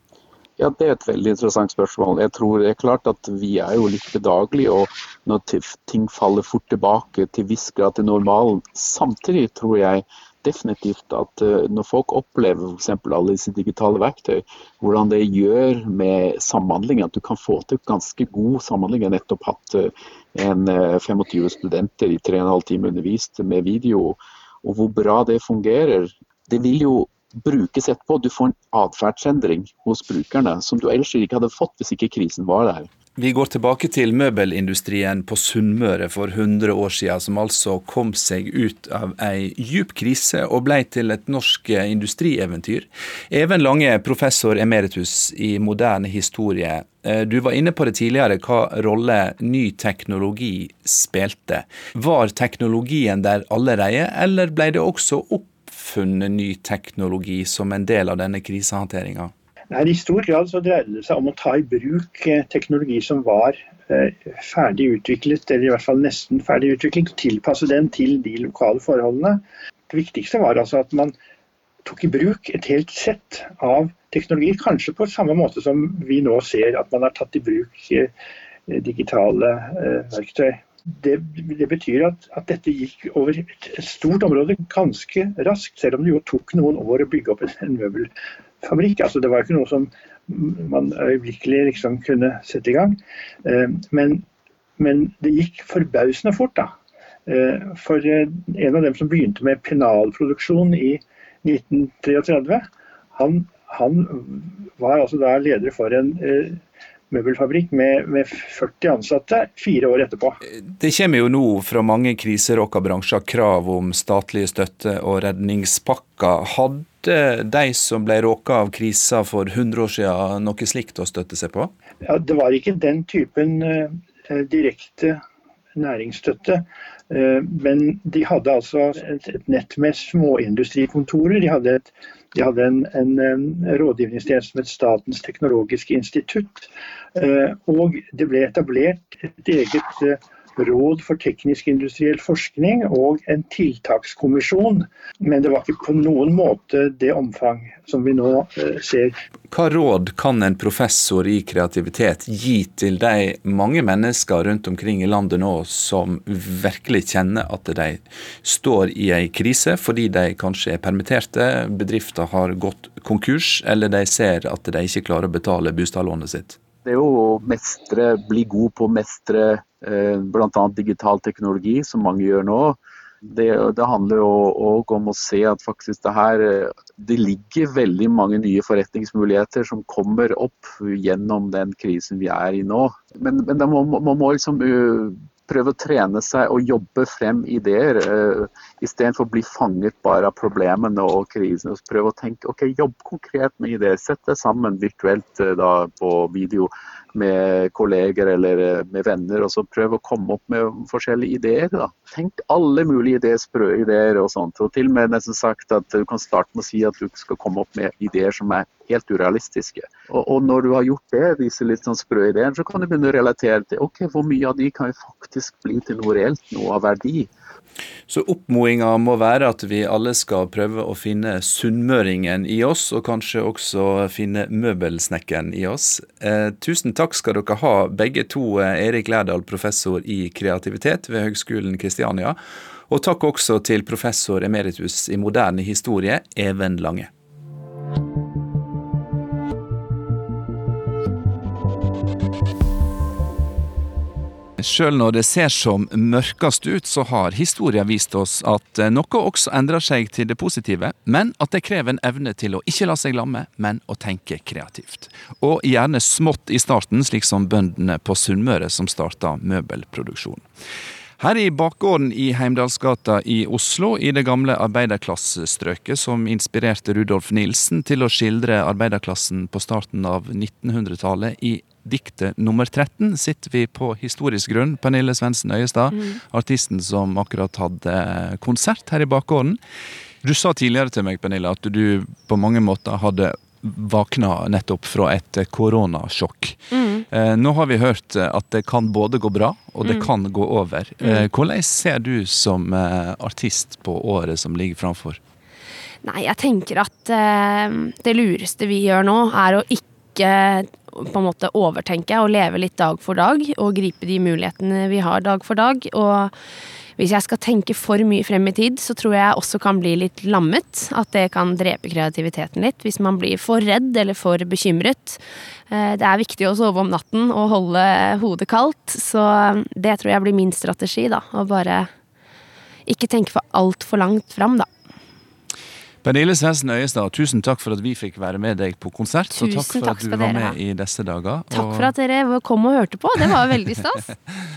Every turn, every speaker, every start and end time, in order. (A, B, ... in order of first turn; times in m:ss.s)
0:00.6-0:32.9 A
0:33.2-0:59.3 B
0:59.7-1:11.2 C
1:11.8-1:18.1 C
1:18.7-1:28.1 C
1:28.6-1:34.2 C
1:34.8-1:36.7 C
1:37.3-1:50.4 C
1:50.7-2:01.7 B
2:02.0-2:05.2 C
2:05.8-2:29.2 C
2:29.5-2:46.6 B
2:46.8-3:37.3 A
3:38.1-3:52.4 B
3:52.9-3:57.1 B
4:04.6-4:20.4 B
4:21.2-4:39.6 B
4:40.2-4:46.6 B
4:46.7-4:47.0 D
4:47.1-4:55.2 B
4:56.0-5:06.3 D
5:07.0-5:21.9 D
5:22.9-5:24.7 D
5:26.0-5:31.9 B
5:29.4-5:30.6 D
5:31.5-5:34.1 D